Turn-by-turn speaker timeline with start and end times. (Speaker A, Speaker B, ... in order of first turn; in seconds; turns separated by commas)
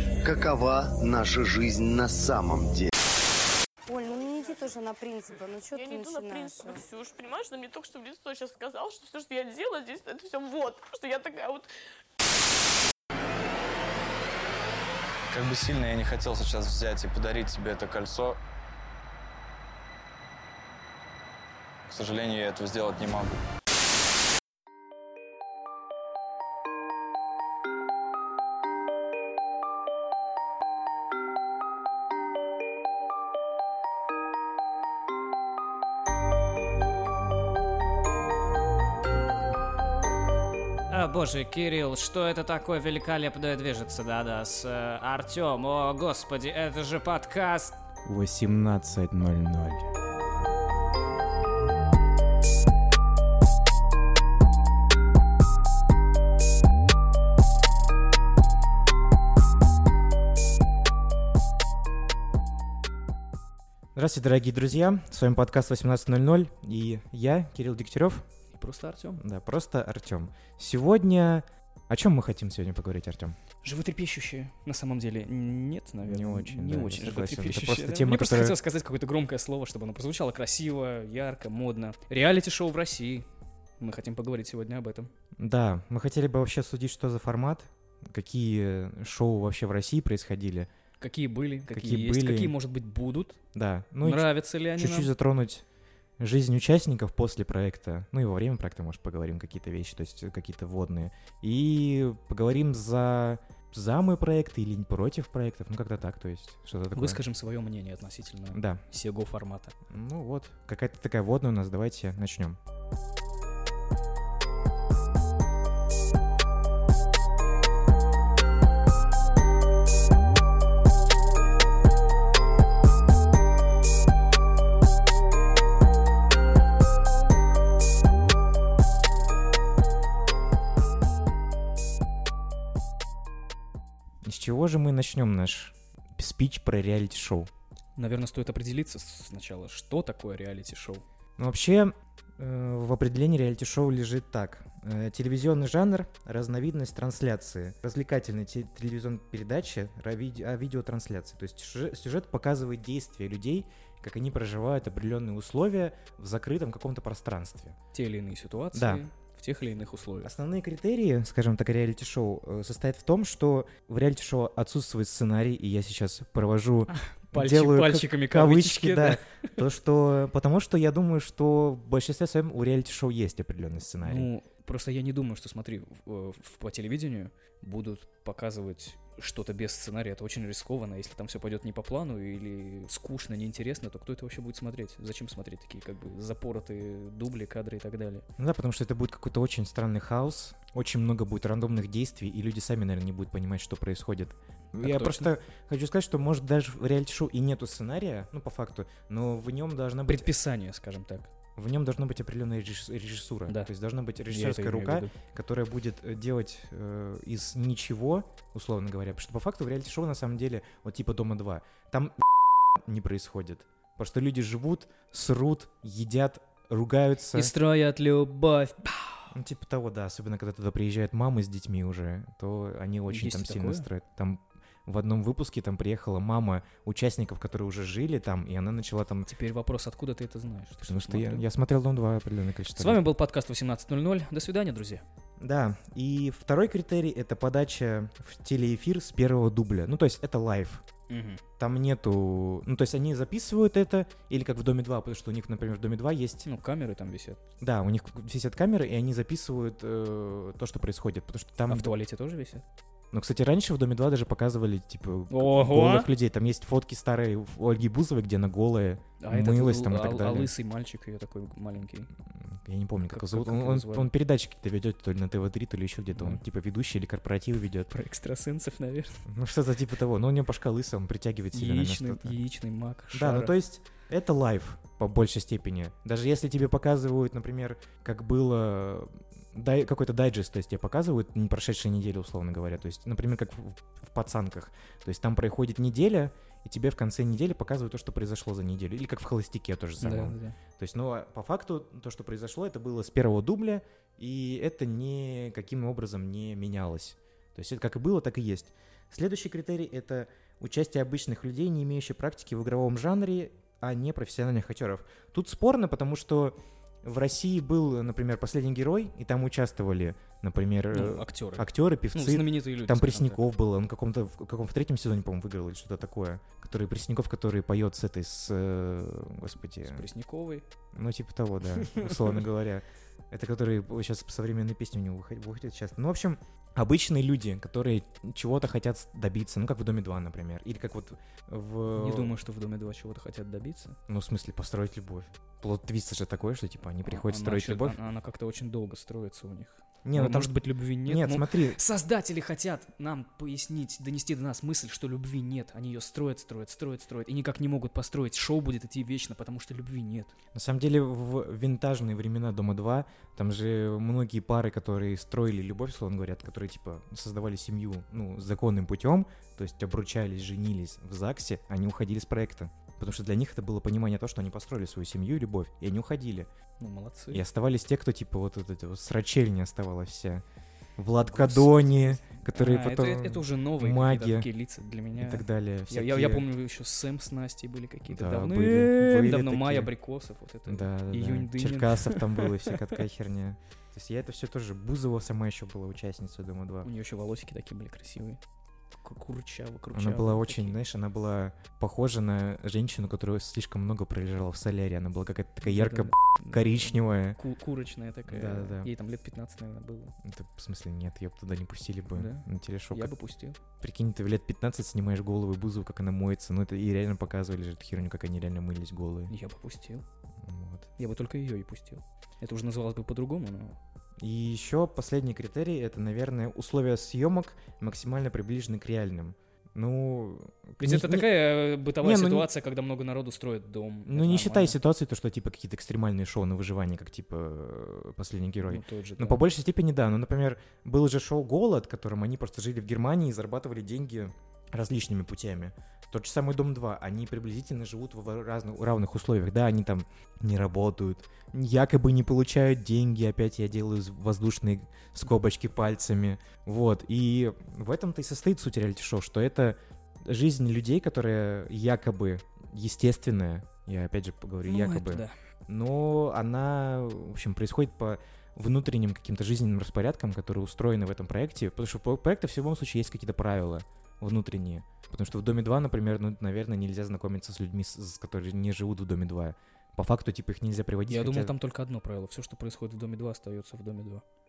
Speaker A: 0.2-2.9, Speaker B: 3.9-6.8, Speaker C: 5.7-11.7, Speaker D: 15.3-18.4, Speaker D: 21.9-23.3, Speaker E: 40.9-47.8, Speaker F: 48.0-49.9, Speaker F: 63.9-68.3, Speaker G: 68.5-69.2, Speaker F: 69.2-73.3, Speaker G: 73.6-83.3, Speaker F: 76.0-78.6, Speaker G: 83.8-85.1, Speaker F: 85.4-90.7, Speaker G: 91.0-93.4, Speaker F: 91.7-92.5, Speaker F: 93.5-95.6, Speaker G: 94.0-95.1, Speaker F: 96.2-107.2, Speaker G: 106.9-109.8, Speaker F: 108.5-108.8, Speaker F: 109.9-112.6, Speaker F: 134.2-137.5, Speaker G: 138.0-141.0, Speaker F: 141.4-157.8, Speaker G: 157.9-160.3, Speaker F: 158.7-159.0, Speaker F: 160.2-174.3, Speaker G: 166.9-169.5, Speaker G: 174.0-188.2, Speaker F: 188.4-200.3, Speaker G: 194.8-195.3, Speaker G: 200.1-201.3, Speaker F: 201.6-217.5, Speaker G: 204.3-205.1, Speaker G: 217.3-219.3, Speaker F: 219.3-229.3, Speaker G: 223.1-223.9, Speaker G: 229.3-231.4, Speaker F: 230.8-233.0, Speaker G: 232.8-235.0, Speaker F: 235.4-240.8, Speaker G: 241.1-241.4, Speaker F: 241.6-246.5, Speaker G: 246.4-247.4, Speaker F: 247.6-251.9, Speaker G: 251.7-252.6, Speaker F: 253.1-260.5, Speaker G: 255.3-256.1, Speaker G: 259.2-262.1, Speaker F: 262.3-267.9, Speaker G: 263.1-264.1, Speaker G: 266.1-266.4, Speaker G: 267.9-269.2, Speaker F: 269.3-272.4, Speaker G: 271.5-273.5, Speaker F: 273.1-320.0, Speaker G: 290.0-290.6, Speaker G: 310.9-313.5, Speaker G: 319.8-320.6, Speaker F: 320.9-332.3, Speaker G: 321.8-322.3, Speaker G: 331.9-334.0, Speaker F: 334.1-338.0, Speaker G: 337.0-350.3, Speaker F: 340.0-341.8, Speaker F: 350.5-366.5, Speaker G: 366.8-367.4, Speaker F: 367.3-370.4, Speaker F: 371.0-374.5, Speaker G: 371.2-383.0, Speaker F: 375.1-376.4, Speaker F: 378.1-379.9, Speaker F: 380.6-386.9, Speaker G: 386.8-388.4, Speaker G: 389.0-390.8, Speaker F: 389.9-397.4, Speaker G: 395.6-400.1, Speaker F: 398.3-398.9, Speaker F: 400.2-403.1, Speaker G: 402.1-403.6, Speaker F: 403.8-409.3, Speaker G: 409.3-410.0, Speaker F: 410.4-410.9, Speaker G: 411.0-413.8, Speaker F: 414.2-422.5, Speaker G: 420.8-424.8, Speaker F: 424.1-471.5, Speaker G: 428.6-429.4, Speaker G: 454.6-455.3, Speaker G: 471.1-474.2